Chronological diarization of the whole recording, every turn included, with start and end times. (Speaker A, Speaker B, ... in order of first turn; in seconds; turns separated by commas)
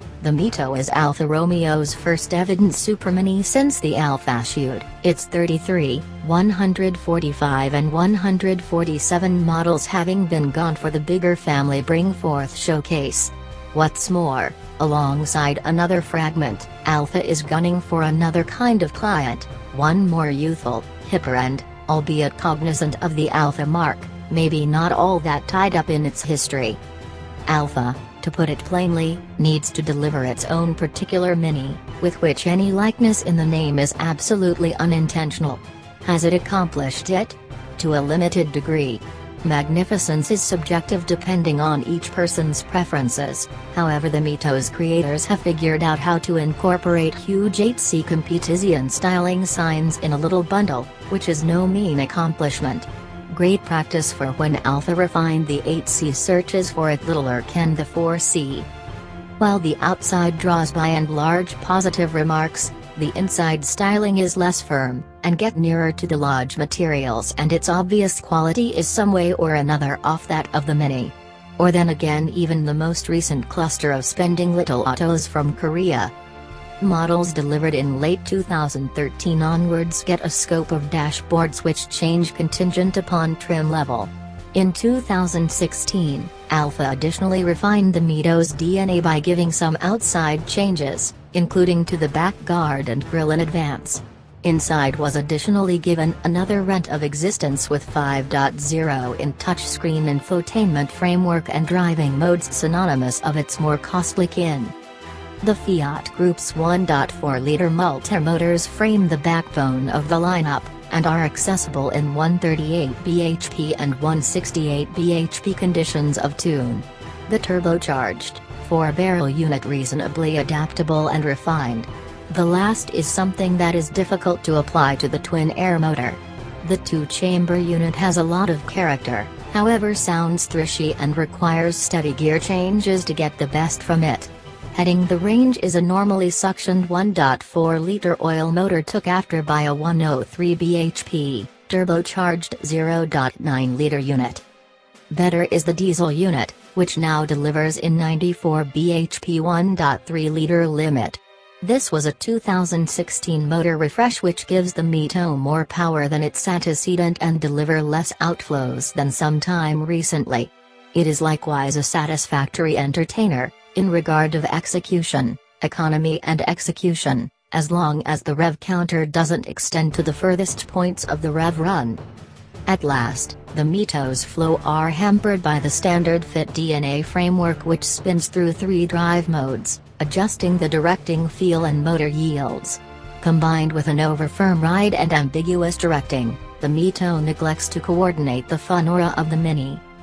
Speaker A: 0.2-26.8, Speaker A: 27.5-58.7, Speaker A: 59.4-76.1, Speaker A: 76.8-104.7, Speaker A: 105.4-144.4, Speaker A: 145.1-172.0, Speaker A: 172.7-189.8